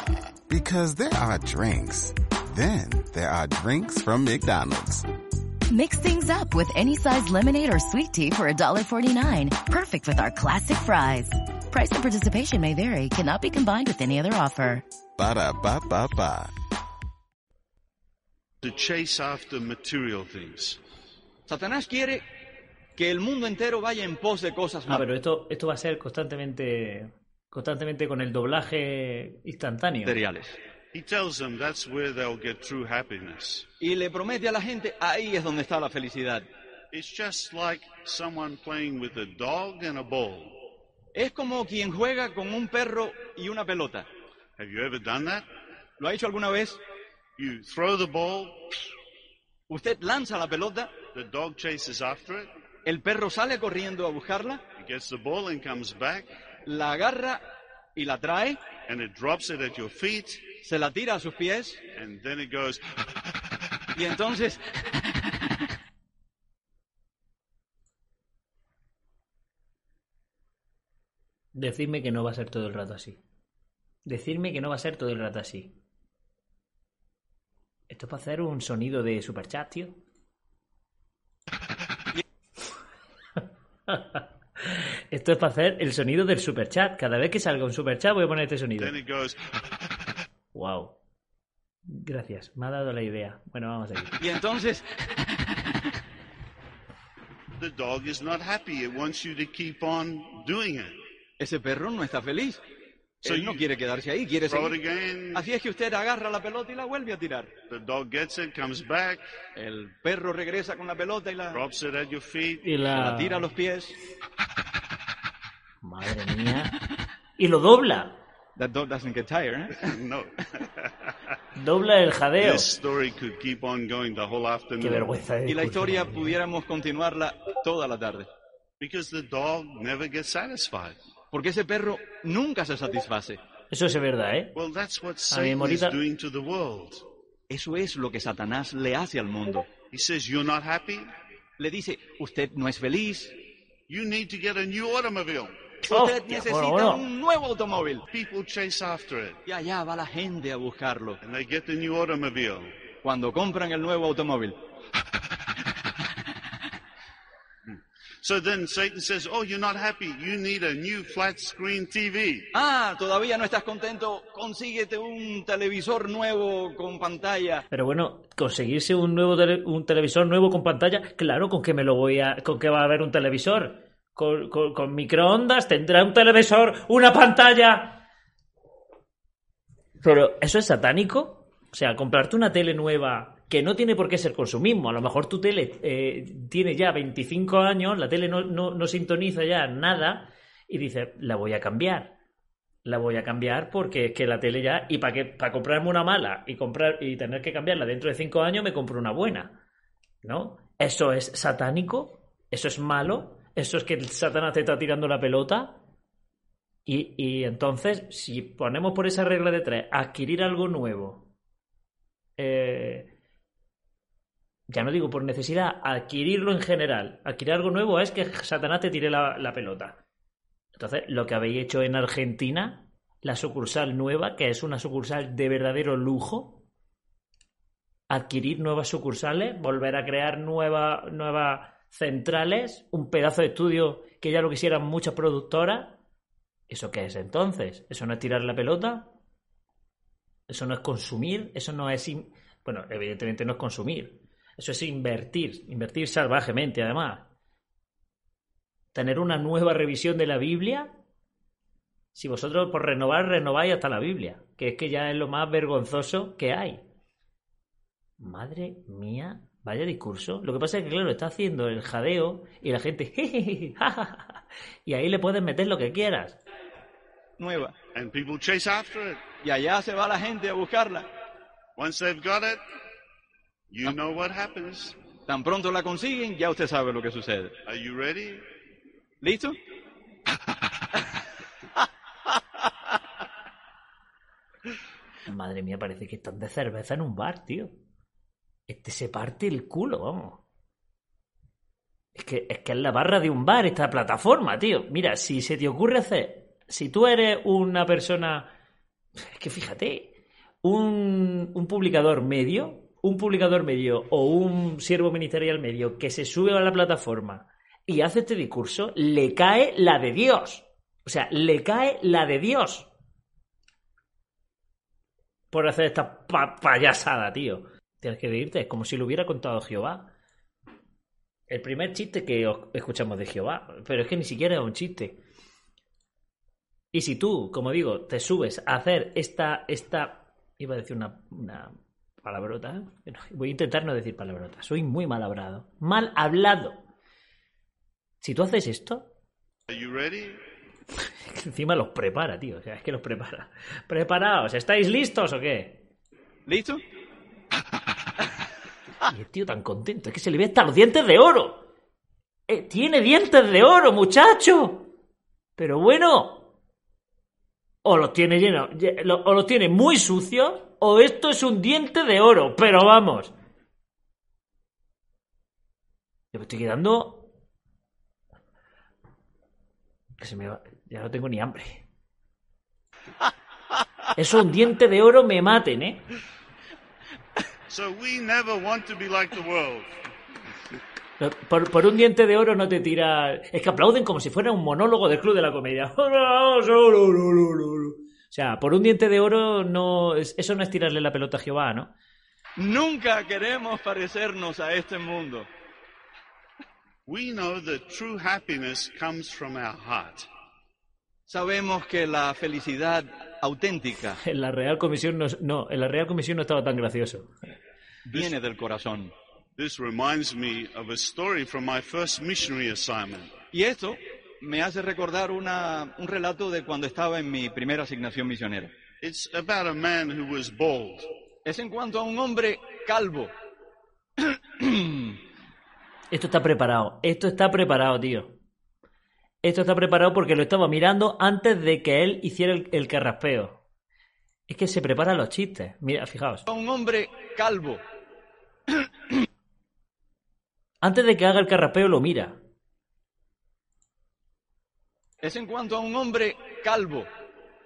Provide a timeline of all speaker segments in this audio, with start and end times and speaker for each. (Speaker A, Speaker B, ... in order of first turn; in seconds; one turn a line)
Speaker A: 0.5-5.0
Speaker B: 5.7-14.8
Speaker A: 15.2-16.5
Speaker C: 18.6-20.8
Speaker D: 21.5-22.2
Speaker D: 22.9-25.0
Speaker E: 24.9-30.2
Speaker D: 30.1-30.6
Speaker C: 30.9-33.7
Speaker D: 33.8-36.5
Speaker C: 36.9-40.5
Speaker D: 41.1-44.1
Speaker C: 44.6-45.5
Speaker D: 46.0-46.8
Speaker C: 47.4-48.9
Speaker D: 49.7-50.9
Speaker C: 51.1-52.5
Speaker D: 52.9-54.6
Speaker C: 54.8-56.3
Speaker D: 56.6-57.4
Speaker D: 58.0-58.6
Speaker C: 58.9-60.4
Speaker D: 60.6-61.8
Speaker C: 61.9-62.8
Speaker D: 64.0-64.6
Speaker E: 71.5-73.2
Speaker E: 74.0-75.8
Speaker E: 77.9-80.0
Speaker E: 83.9-84.2
Speaker E: 85.1-89.0
Speaker C: 88.8-89.4
Speaker E: 90.5-91.0
Speaker E: 91.9-94.2
Speaker D: 94.2-94.9
Speaker C: 97.6-100.9
Speaker D: 101.4-102.6
Speaker D: 103.2-104.8
Speaker C: 103.2-103.7
Speaker C: 104.5-105.5
Speaker D: 105.3-107.5
Speaker C: 107.7-109.2
Speaker D: 109.5-111.6
Speaker C: 111.5-112.7
Speaker E: 112.6-113.5
Speaker D: 112.9-114.0
Speaker E: 115.8-116.7
Speaker E: 117.4-118.2
Speaker D: 118.5-119.9
Speaker C: 119.8-121.3
Speaker E: 121.5-122.7
Speaker C: 122.4-125.1
Speaker E: 124.8-126.4
Speaker D: 125.5-128.3
Speaker C: 128.8-130.9
Speaker D: 131.3-133.4
Speaker E: 133.7-134.5
Speaker C: 134.5-137.0
Speaker E: 135.3-136.0
Speaker D: 137.5-139.7
Speaker C: 139.9-141.1
Speaker D: 141.6-143.3
Speaker C: 143.9-145.6
Speaker E: 145.9-147.1
Speaker D: 145.9-148.0
Speaker C: 148.1-149.4
Speaker D: 149.4-151.2
Speaker C: 151.2-152.7
Speaker D: 153.0-154.6
Speaker C: 157.7-162.5
Speaker D: 162.5-167.6
Speaker E: 167.7-178.0
Speaker E: 180.0-192.1
Speaker E: 192.8-199.6
Speaker E: 200.2-205.8
Speaker E: 206.8-211.3
Speaker E: 212.4-213.1
Speaker E: 214.7-220.0
Speaker E: 220.7-226.7
Speaker E: 228.1-236.0
Speaker E: 236.7-239.1
Speaker E: 240.5-247.3
Speaker E: 248.9-250.9
Speaker E: 252.1-256.8
Speaker E: 258.2-266.4
Speaker D: 267.4-267.7
Speaker C: 267.9-269.2
Speaker D: 269.4-271.1
Speaker C: 271.8-272.6
Speaker C: 273.7-275.0
Speaker D: 275.3-277.5
Speaker C: 277.6-278.4
Speaker D: 279.2-279.6
Speaker E: 285.3-287.7
Speaker E: 288.7-290.4
Speaker E: 292.1-298.5
Speaker E: 299.2-312.9
Speaker E: 315.5-320.1
Speaker E: 321.5-325.2
Speaker E: 326.9-336.8
Speaker E: 338.2-339.1
Speaker C: 339.7-340.4
Speaker E: 341.3-345.8
Speaker D: 346.5-346.8
Speaker E: 349.0-351.7
Speaker E: 352.5-354.9
Speaker E: 355.6-356.5
Speaker E: 357.8-363.3
Speaker E: 366.3-367.3
Speaker E: 370.2-371.8
Speaker E: 374.1-376.1
Speaker C: 377.7-379.9
Speaker E: 381.2-391.9
Speaker D: 392.6-395.5
Speaker C: 397.1-400.3
Speaker D: 401.3-404.2
Speaker E: 404.2-407.3
Speaker D: 408.1-409.1
Speaker C: 409.6-413.3
Speaker D: 413.5-418.7
Speaker C: 419.0-421.1
Speaker D: 421.4-423.3
Speaker D: 424.3-425.2
Speaker E: 426.1-428.4
Speaker E: 429.4-433.6
Speaker E: 434.5-436.5
Speaker D: 436.5-437.8
Speaker E: 440.8-442.4
Speaker D: 445.2-447.1